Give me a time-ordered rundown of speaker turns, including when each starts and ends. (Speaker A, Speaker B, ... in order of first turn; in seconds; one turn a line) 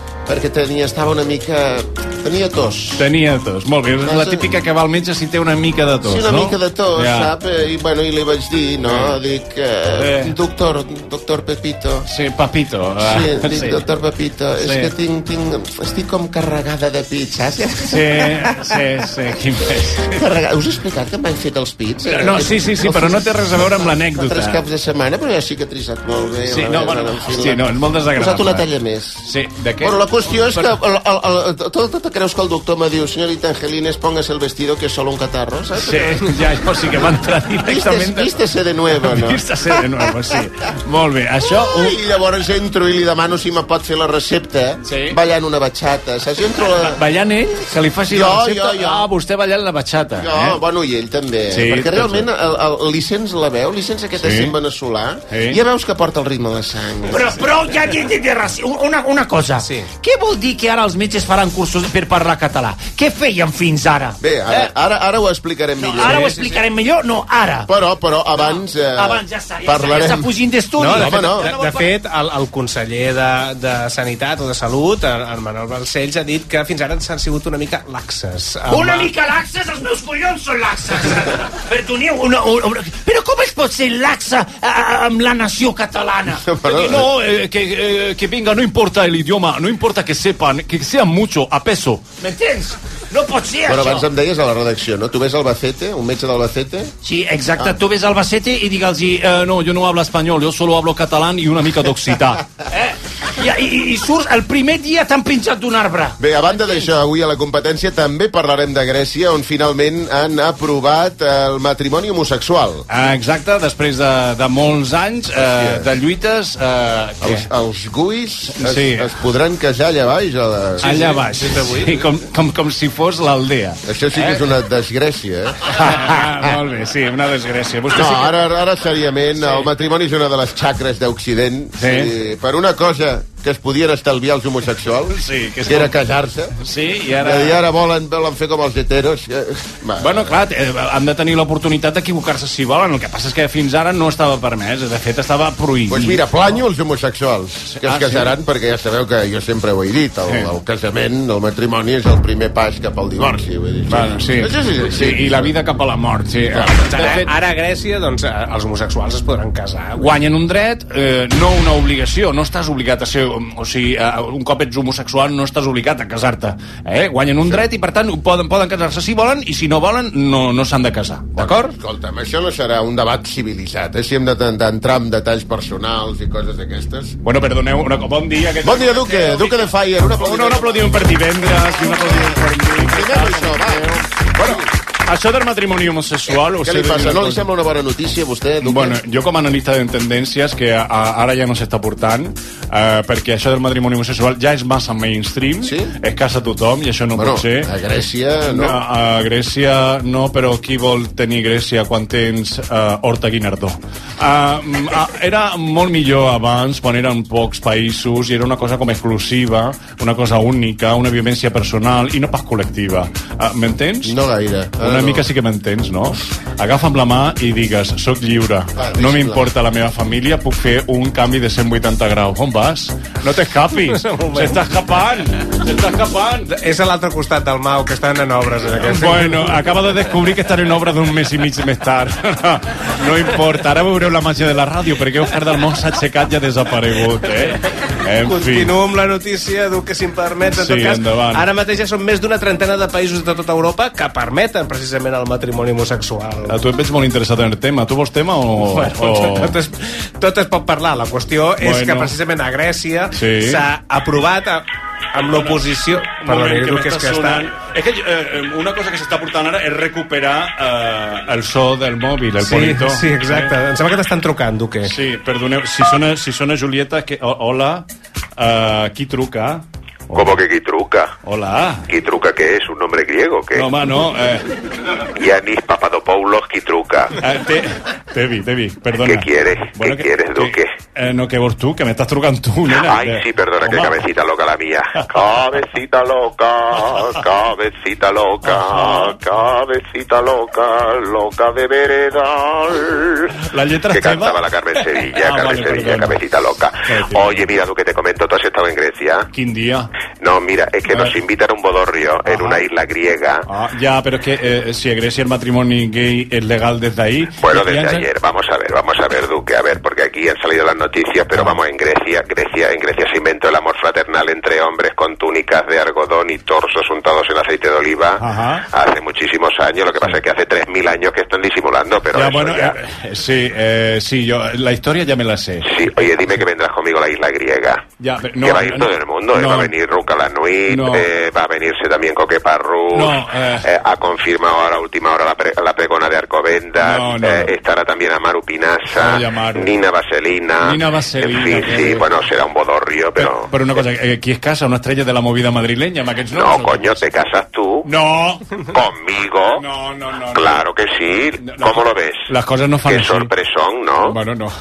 Speaker A: 0.3-3.0
Speaker B: 3.0-7.3
Speaker A: 4.0-4.5
Speaker A: 6.0-12.1
Speaker B: 8.8-9.2
Speaker B: 9.9-10.3
Speaker B: 12.1-13.8
Speaker A: 13.0-18.5
Speaker B: 14.6-14.9
Speaker B: 17.8-20.2
Speaker A: 20.1-29.2
Speaker B: 22.1-24.6
Speaker B: 26.5-28.7
Speaker B: 29.2-30.8
Speaker A: 29.8-36.3
Speaker B: 35.8-38.3
Speaker A: 37.6-39.9
Speaker B: 38.9-42.0
Speaker A: 41.4-47.0
Speaker B: 44.8-45.2
Speaker B: 46.7-50.6
Speaker A: 48.1-49.1
Speaker A: 50.2-57.4
Speaker B: 51.5-52.3
Speaker B: 54.2-54.5
Speaker B: 55.3-55.6
Speaker C: 57.1-64.7
Speaker D: 59.6-59.9
Speaker A: 64.2-66.2
Speaker C: 65.8-67.7
Speaker D: 66.0-66.6
Speaker A: 67.7-70.3
Speaker C: 68.4-71.9
Speaker D: 70.8-79.1
Speaker A: 71.0-71.5
Speaker C: 78.7-86.4
Speaker A: 86.4-87.1
Speaker B: 86.6-92.0
Speaker C: 92.2-94.0
Speaker A: 93.7-96.9
Speaker C: 97.0-98.5
Speaker B: 98.3-102.4
Speaker C: 102.7-106.2
Speaker A: 106.2-112.8
Speaker B: 112.9-117.5
Speaker A: 115.4-115.9
Speaker A: 117.2-121.1
Speaker B: 118.6-119.1
Speaker B: 120.8-124.4
Speaker D: 120.8-122.0
Speaker A: 123.9-126.5
Speaker B: 125.7-128.3
Speaker A: 127.9-136.6
Speaker B: 129.4-129.7
Speaker B: 131.8-132.1
Speaker B: 135.1-135.9
Speaker B: 136.6-137.6
Speaker A: 137.2-140.3
Speaker B: 140.0-146.6
Speaker A: 145.9-155.5
Speaker B: 147.7-148.3
Speaker B: 153.9-157.3
Speaker A: 156.5-157.1
Speaker D: 156.9-160.1
Speaker B: 160.0-171.7
Speaker A: 171.4-177.2
Speaker B: 177.2-187.4
Speaker A: 178.6-184.7
Speaker A: 186.5-189.0
Speaker B: 188.6-197.7
Speaker A: 195.6-195.9
Speaker A: 197.1-198.8
Speaker B: 198.4-214.1
Speaker A: 214.0-215.2
Speaker B: 214.8-226.5
Speaker A: 218.8-219.5
Speaker D: 223.9-224.6
Speaker D: 226.5-229.5
Speaker B: 228.8-238.7
Speaker D: 238.2-246.6
Speaker B: 240.5-241.4
Speaker B: 246.5-249.6
Speaker D: 248.6-257.5
Speaker B: 251.6-252.1
Speaker B: 253.1-253.6
Speaker B: 255.2-263.5
Speaker D: 262.4-264.9
Speaker B: 264.8-267.9
Speaker B: 268.4-270.4
Speaker E: 270.1-271.1
Speaker B: 271.2-271.9
Speaker E: 271.9-273.7
Speaker B: 273.5-274.4
Speaker E: 275.2-277.2
Speaker B: 277.2-284.0
Speaker E: 279.0-280.7
Speaker E: 282.7-293.3
Speaker B: 288.4-289.2
Speaker B: 293.4-296.2
Speaker E: 293.9-299.3
Speaker B: 296.9-297.5
Speaker B: 299.3-299.9
Speaker E: 300.2-303.4
Speaker B: 302.2-302.6
Speaker B: 303.5-308.0
Speaker E: 307.4-322.8
Speaker B: 318.2-318.6
Speaker B: 322.1-326.1
Speaker E: 325.6-327.9
Speaker B: 328.0-329.7
Speaker E: 328.4-343.5
Speaker B: 330.7-331.1
Speaker B: 332.9-333.7
Speaker B: 336.8-337.5
Speaker B: 338.9-339.8
Speaker B: 340.6-342.0
Speaker B: 343.1-347.0
Speaker E: 346.3-347.9
Speaker B: 347.8-348.4
Speaker E: 348.7-349.6
Speaker B: 349.5-350.6
Speaker E: 350.3-352.3
Speaker B: 351.4-353.3
Speaker E: 352.9-354.1
Speaker B: 354.0-354.5